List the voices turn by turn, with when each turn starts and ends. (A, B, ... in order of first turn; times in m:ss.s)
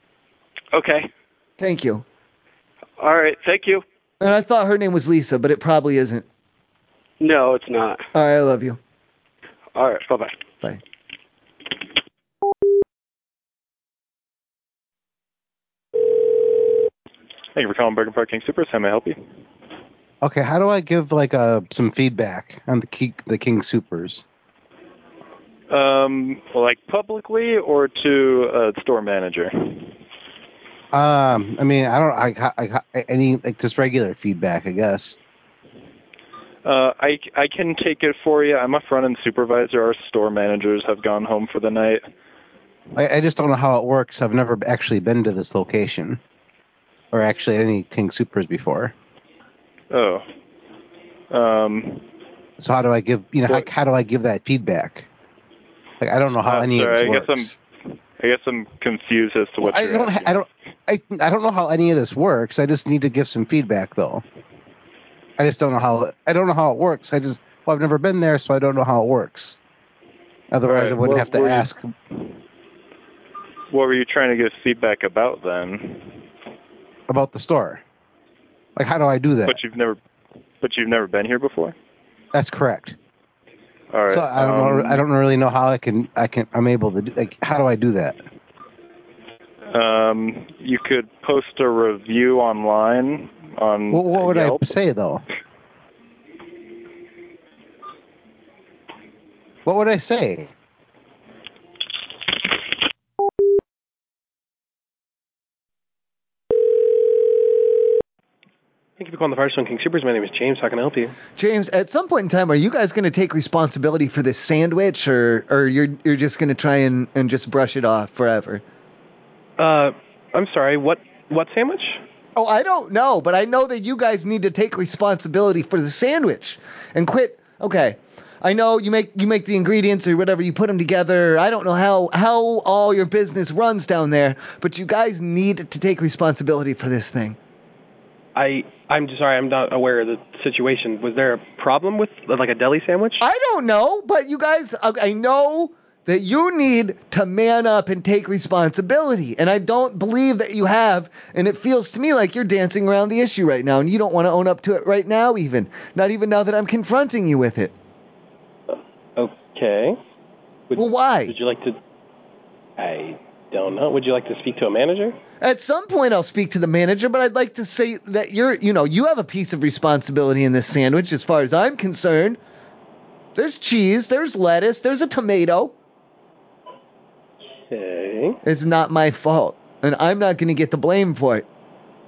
0:00.7-0:01.1 A
0:01.6-0:02.0 B
0:03.0-0:03.8 A
0:04.2-0:06.2 B
0:07.2-0:08.0 A
0:08.2-0:08.8 B
0:09.8-0:10.3 A
0:17.6-0:19.2 C
0:20.2-0:24.2 D
0:25.7-0:29.9 C
0:30.9-0:35.2 D
0:36.6-0:42.1 C
0:43.0-0:46.2 D
0:47.1-0:48.9 D
0:49.9-0:50.2 C
0:51.3-0:52.0 C
0:52.6-0:55.1 D
0:56.0-0:57.6 D
0:56.4-0:57.5 C
0:58.2-1:00.4 C
0:59.6-1:04.2 D
1:05.4-1:09.6 D
1:10.5-1:11.9 D
1:10.7-1:11.7 C
1:13.7-1:16.2 C
1:17.1-1:17.8 D
1:18.8-1:19.6 D
1:19.5-1:20.0 C
1:20.6-1:21.8 C
1:22.3-1:23.0 D
1:23.9-1:25.0 C
1:24.1-1:28.2 D
1:29.7-1:34.6 C
1:33.9-1:35.2 D
1:39.6-1:40.5 D
1:49.0-1:51.2 E
1:51.4-1:58.6 B
1:59.6-2:02.0 E
2:02.4-2:17.4 B
2:18.4-2:23.2 E
2:23.2-2:37.7 B
2:39.2-2:40.0 E
2:40.7-2:41.8 E
2:40.8-2:41.4 B
2:42.8-2:45.2 E
2:45.4-2:52.4 B
2:53.4-2:55.7 B
2:57.7-2:58.4 E
2:58.4-3:01.5 B